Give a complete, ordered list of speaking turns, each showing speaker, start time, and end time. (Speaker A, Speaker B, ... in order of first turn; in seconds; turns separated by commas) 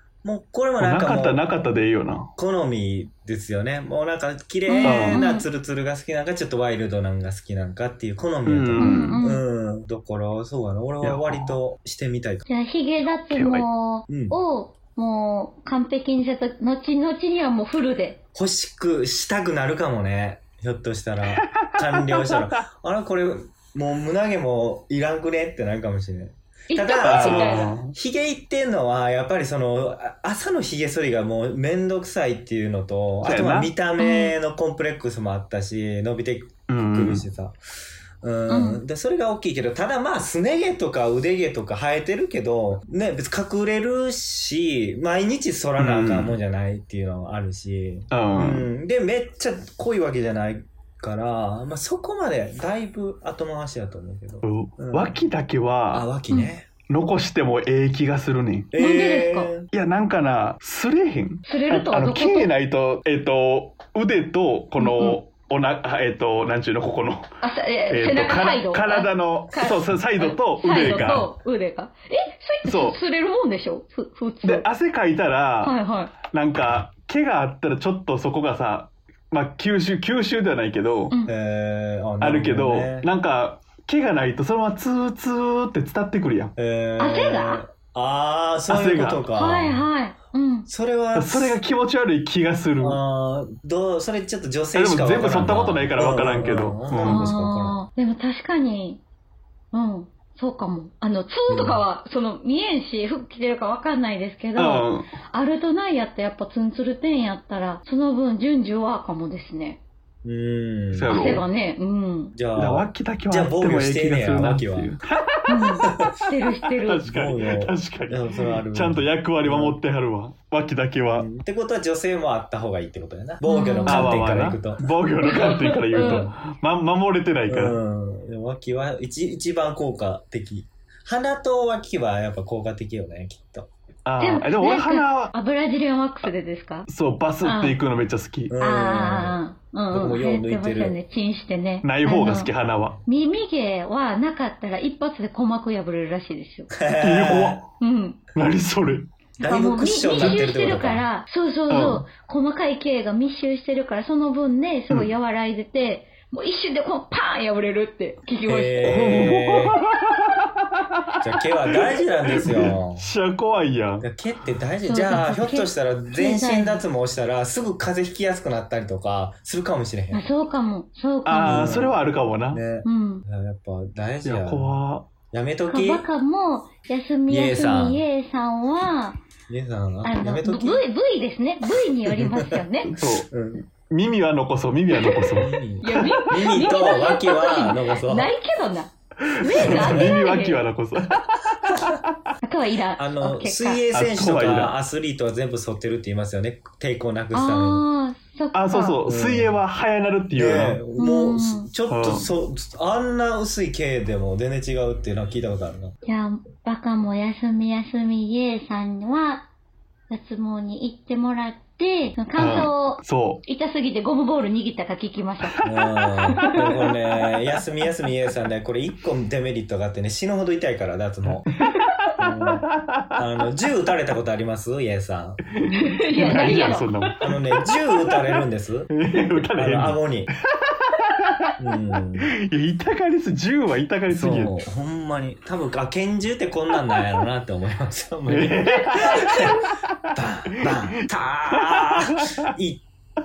Speaker A: 0.2-1.4, Speaker B: 0.8-2.3, Speaker A: 2.4-12.4, Speaker C: 4.7-5.5, Speaker B: 4.8-5.2, Speaker B: 8.5-9.2, Speaker C: 8.8-9.4, Speaker B: 11.0-11.6, Speaker C: 12.5-18.2, Speaker B: 13.3-13.7, Speaker A: 14.1-14.4, Speaker A: 18.4-37.6, Speaker B: 21.3-22.5, Speaker C: 26.7-27.7, Speaker B: 27.0-27.9, Speaker B: 33.2-33.7, Speaker C: 34.0-34.3, Speaker B: 36.7-37.2, Speaker A: 38.2-55.2, Speaker C: 38.5-38.8, Speaker B: 45.8-46.4, Speaker B: 48.1-48.7, Speaker B: 54.4-56.1, Speaker A: 55.9-56.7, Speaker B: 56.9-58.7, Speaker A: 58.7-59.7, Speaker C: 58.8-59.5, Speaker B: 59.7-67.3, Speaker C: 61.5-62.5, Speaker C: 64.8-65.2, Speaker C: 67.4-74.7, Speaker B: 67.9-71.3, Speaker B: 72.6-73.0, Speaker B: 74.4-81.2, Speaker C: 75.6-76.1, Speaker A: 81.3-83.1, Speaker B: 82.2-86.5, Speaker A: 86.6-89.9, Speaker C: 87.0-87.6, Speaker B: 88.7-89.2, Speaker C: 89.3-90.7, Speaker A: 90.7-91.6, Speaker B: 91.2-93.0, Speaker A: 92.8-97.8, Speaker B: 94.7-97.3, Speaker C: 97.0-99.0, Speaker C: 99.7-109.8, Speaker A: 101.5-101.8, Speaker B: 104.6-105.2, Speaker A: 110.2-111.4, Speaker B: 110.9-111.5, Speaker C: 111.1-112.4, Speaker A: 112.3-114.9, Speaker B: 112.5-115.9, Speaker C: 115.5-117.1, Speaker B: 116.7-121.3, Speaker A: 117.0-119.8, Speaker A: 121.1-124.8, Speaker C: 123.4-124.2, Speaker B: 123.9-127.8, Speaker C: 125.2-126.3, Speaker A: 127.5-133.7, Speaker B: 134.1-135.3, Speaker C: 134.2-136.9, Speaker B: 136.9-138.5, Speaker C: 137.4-137.8, Speaker A: 138.5-139.4, Speaker C: 138.6-142.5, Speaker A: 139.9-141.0, Speaker B: 141.8-143.0, Speaker C: 143.1-146.7, Speaker A: 146.7-147.6, Speaker B: 147.0-147.7, Speaker C: 147.8-148.2, Speaker B: 148.3-149.1, Speaker A: 149.4-151.1, Speaker C: 149.4-159.1, Speaker B: 151.7-152.1, Speaker A: 158.5-159.8, Speaker B: 158.9-160.5, Speaker A: 161.2-163.1, Speaker B: 162.3-164.1, Speaker A: 164.0-170.2, Speaker C: 164.8-166.8, Speaker C: 170.1-171.8, Speaker B: 171.2-172.6, Speaker A: 171.4-172.0, Speaker A: 172.5-174.8, Speaker C: 172.8-173.2, Speaker B: 174.2-175.1, Speaker A: 175.3-176.1, Speaker C: 175.7-179.2, Speaker A: 177.3-178.0, Speaker A: 179.5-180.8, Speaker C: 180.0-182.9, Speaker A: 182.1-183.6, Speaker B: 182.9-186.2, Speaker C: 184.9-190.6, Speaker A: 185.4-188.3, Speaker B: 189.2-192.2, Speaker A: 189.7-190.2, Speaker C: 192.4-193.8, Speaker A: 193.0-197.8, Speaker B: 193.9-194.8, Speaker C: 197.3-199.0, Speaker B: 198.5-200.8, Speaker A: 199.1-199.6, Speaker A: 200.3-205.9, Speaker C: 201.0-201.7, Speaker B: 201.9-202.3, Speaker C: 206.0-209.5, Speaker C: 210.1-215.6, Speaker B: 212.4-213.4, Speaker A: 215.6-221.5, Speaker C: 216.3-216.7, Speaker B: 221.3-223.2, Speaker A: 222.2-222.7, Speaker A: 223.2-225.4, Speaker B: 225.6-227.4, Speaker C: 225.7-227.0, Speaker A: 227.2-230.3, Speaker B: 228.1-230.1, Speaker B: 230.9-231.5, Speaker A: 231.6-232.3, Speaker B: 232.2-234.6, Speaker A: 234.1-239.6, Speaker B: 238.3-240.0, Speaker A: 240.2-242.8, Speaker B: 240.6-242.4